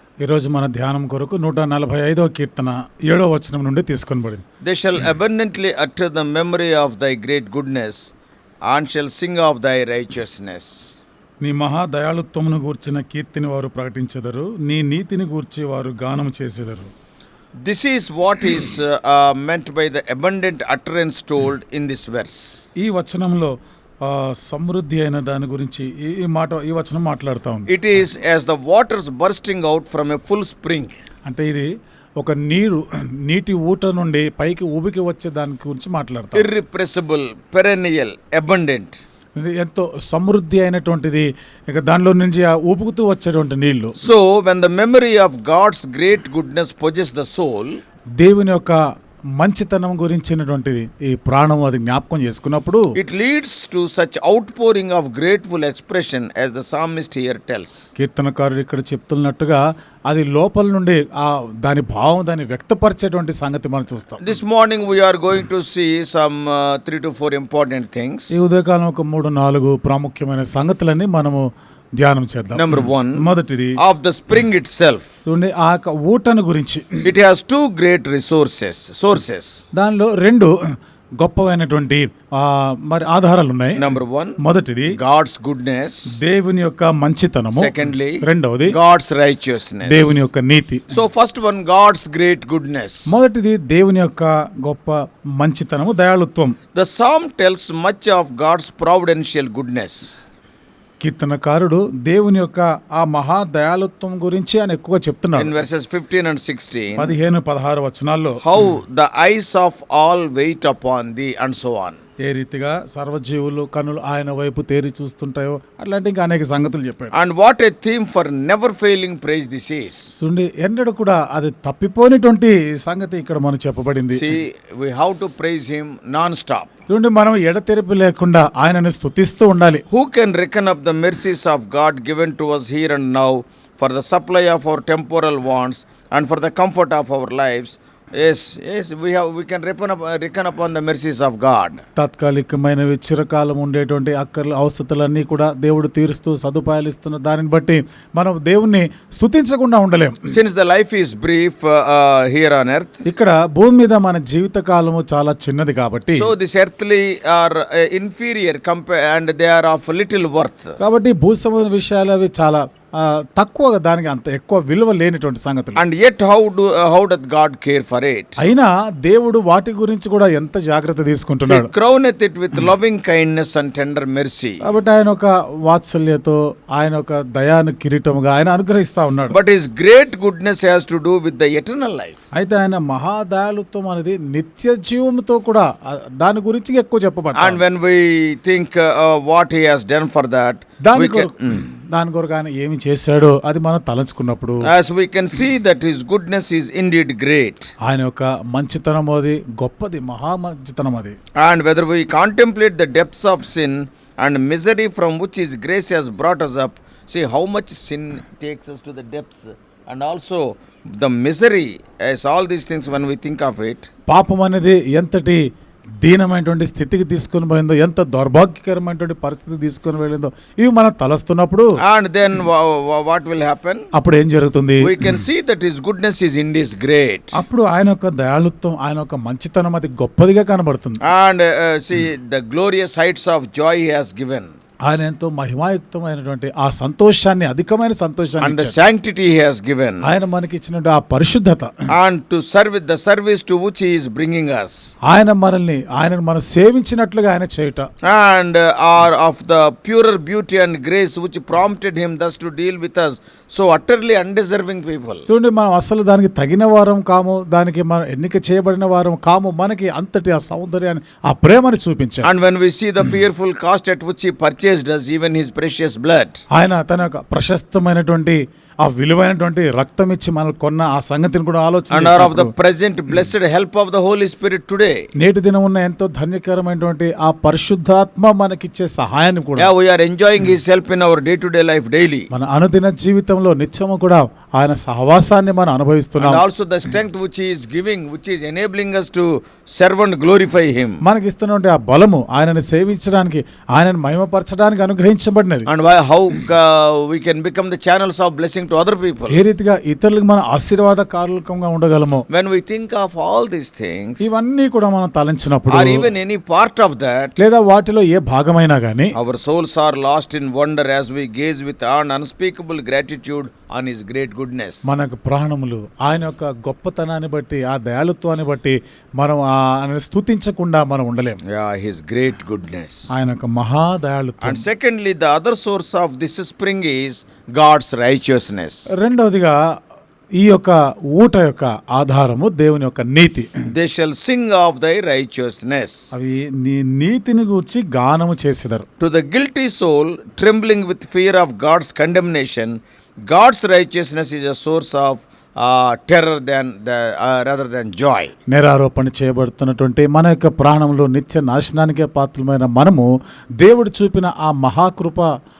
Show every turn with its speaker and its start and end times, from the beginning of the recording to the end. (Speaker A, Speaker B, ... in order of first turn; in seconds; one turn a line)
Speaker A: 0.2-4.4
Speaker B: 4.6-8.1
Speaker B: 8.7-10.8
Speaker A: 11.4-16.9
Speaker B: 17.6-22.6
Speaker A: 22.8-23.5
Speaker A: 24.0-27.7
Speaker B: 27.7-31.0
Speaker A: 31.2-31.7
Speaker A: 32.2-36.5
Speaker B: 36.3-39.0
Speaker A: 39.4-43.9
Speaker B: 44.0-47.8
Speaker A: 48.2-48.8
Speaker A: 49.4-52.9
Speaker B: 52.9-57.9
Speaker A: 58.0-64.2
Speaker B: 64.2-68.3
Speaker A: 68.3-71.4
Speaker A: 72.0-73.8
Speaker B: 72.5-73.2
Speaker B: 73.8-75.1
Speaker A: 75.2-77.1
Speaker B: 77.0-79.6
Speaker A: 79.7-80.5
Speaker A: 81.2-85.0
Speaker B: 83.8-84.4
Speaker B: 84.9-86.1
Speaker A: 86.2-88.7
Speaker B: 87.5-90.1
Speaker A: 89.8-90.9
Speaker B: 90.9-93.1
Speaker A: 93.1-96.5
Speaker B: 96.7-100.2
Speaker A: 101.0-105.6
Speaker B: 105.3-107.1
Speaker A: 107.0-108.4
Speaker B: 108.4-112.0
Speaker A: 112.2-117.1
Speaker B: 117.1-120.1
Speaker A: 120.2-124.3
Speaker B: 124.1-126.7
Speaker A: 126.9-129.8
Speaker B: 129.9-141.8
Speaker A: 141.9-150.2
Speaker B: 150.3-153.0
Speaker A: 153.1-156.3
Speaker B: 156.1-160.8
Speaker A: 160.8-165.8
Speaker B: 165.7-168.4
Speaker A: 168.4-171.7
Speaker B: 171.5-174.6
Speaker A: 174.6-179.3
Speaker B: 179.3-182.2
Speaker A: 182.3-187.6
Speaker B: 187.3-191.7
Speaker A: 190.8-194.6
Speaker B: 194.7-197.7
Speaker A: 197.8-201.1
Speaker B: 201.4-213.9
Speaker A: 214.1-215.4
Speaker A: 216.0-221.7
Speaker B: 221.8-223.9
Speaker A: 223.9-224.9
Speaker B: 224.8-227.4
Speaker A: 227.3-231.0
Speaker B: 231.0-234.5
Speaker A: 234.8-238.7
Speaker B: 238.4-240.1
Speaker A: 240.0-241.7
Speaker B: 241.9-244.9
Speaker A: 245.1-247.9
Speaker B: 248.0-255.3
Speaker A: 255.3-262.3
Speaker B: 262.2-266.4
Speaker A: 266.5-272.5
Speaker B: 271.9-275.0
Speaker A: 275.2-279.7
Speaker B: 279.6-282.3
Speaker A: 282.3-286.4
Speaker B: 286.2-291.0
Speaker A: 291.0-295.7
Speaker B: 295.7-299.4
Speaker A: 299.3-302.2
Speaker B: 302.3-304.2
Speaker A: 304.2-306.1
Speaker B: 305.7-307.4
Speaker A: 307.4-309.1
Speaker B: 309.1-314.8
Speaker A: 314.8-321.4
Speaker B: 321.5-323.1
Speaker A: 323.1-324.6
Speaker B: 324.4-328.9
Speaker A: 329.0-329.6
Speaker A: 330.4-333.5
Speaker B: 333.7-336.1
Speaker A: 336.1-338.8
Speaker B: 339.0-348.3
Speaker A: 348.5-353.1
Speaker A: 353.6-355.3